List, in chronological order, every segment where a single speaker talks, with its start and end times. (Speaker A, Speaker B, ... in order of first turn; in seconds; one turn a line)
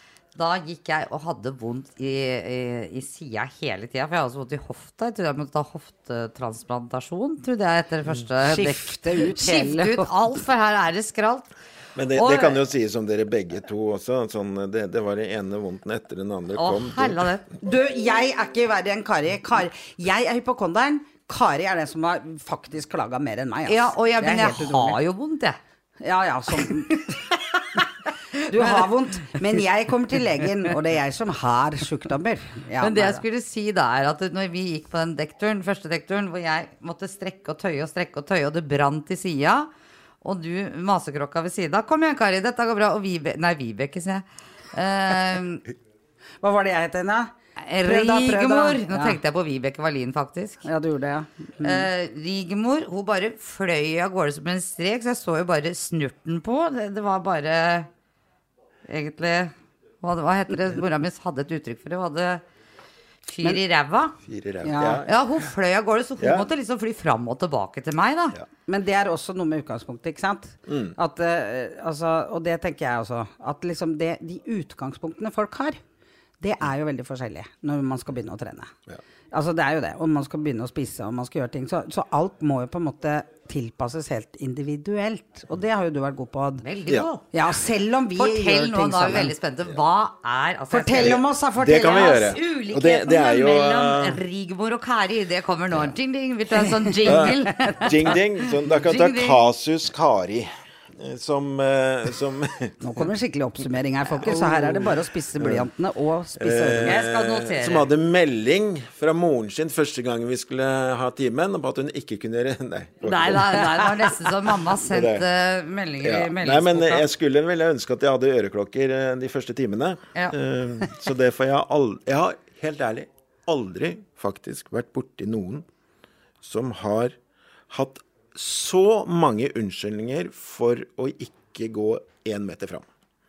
Speaker A: 0.4-11.5
Speaker B: 8.4-10.1
Speaker C: 12.0-17.3
Speaker A: 12.1-12.6
Speaker A: 16.5-17.4
Speaker B: 17.6-25.0
Speaker A: 23.7-25.6
Speaker B: 26.0-27.2
Speaker A: 26.9-27.8
Speaker A: 28.4-29.4
Speaker B: 28.5-33.2
Speaker A: 32.8-39.7
Speaker A: 40.2-45.7
Speaker B: 46.4-49.2
Speaker A: 47.7-50.7
Speaker B: 50.6-51.9
Speaker A: 51.6-57.9
Speaker A: 58.9-62.4
Speaker A: 63.3-64.2
Speaker C: 64.3-65.2
Speaker B: 64.6-65.0
Speaker A: 65.0-68.4
Speaker C: 66.2-66.5
Speaker B: 68.7-75.8
Speaker C: 70.7-71.0
Speaker B: 76.4-78.7
Speaker B: 79.3-86.7
Speaker A: 86.6-87.3
Speaker B: 87.3-89.3
Speaker A: 88.2-91.2
Speaker B: 90.7-92.4
Speaker C: 91.0-94.2
Speaker A: 91.7-98.2
Speaker B: 96.6-97.9
Speaker C: 97.0-102.9
Speaker A: 98.7-99.4
Speaker B: 102.8-107.0
Speaker C: 104.2-105.7
Speaker C: 106.4-113.7
Speaker A: 106.8-107.9
Speaker A: 113.0-117.0
Speaker C: 114.9-115.2
Speaker C: 116.0-125.7
Speaker C: 126.4-127.2
Speaker C: 127.7-132.8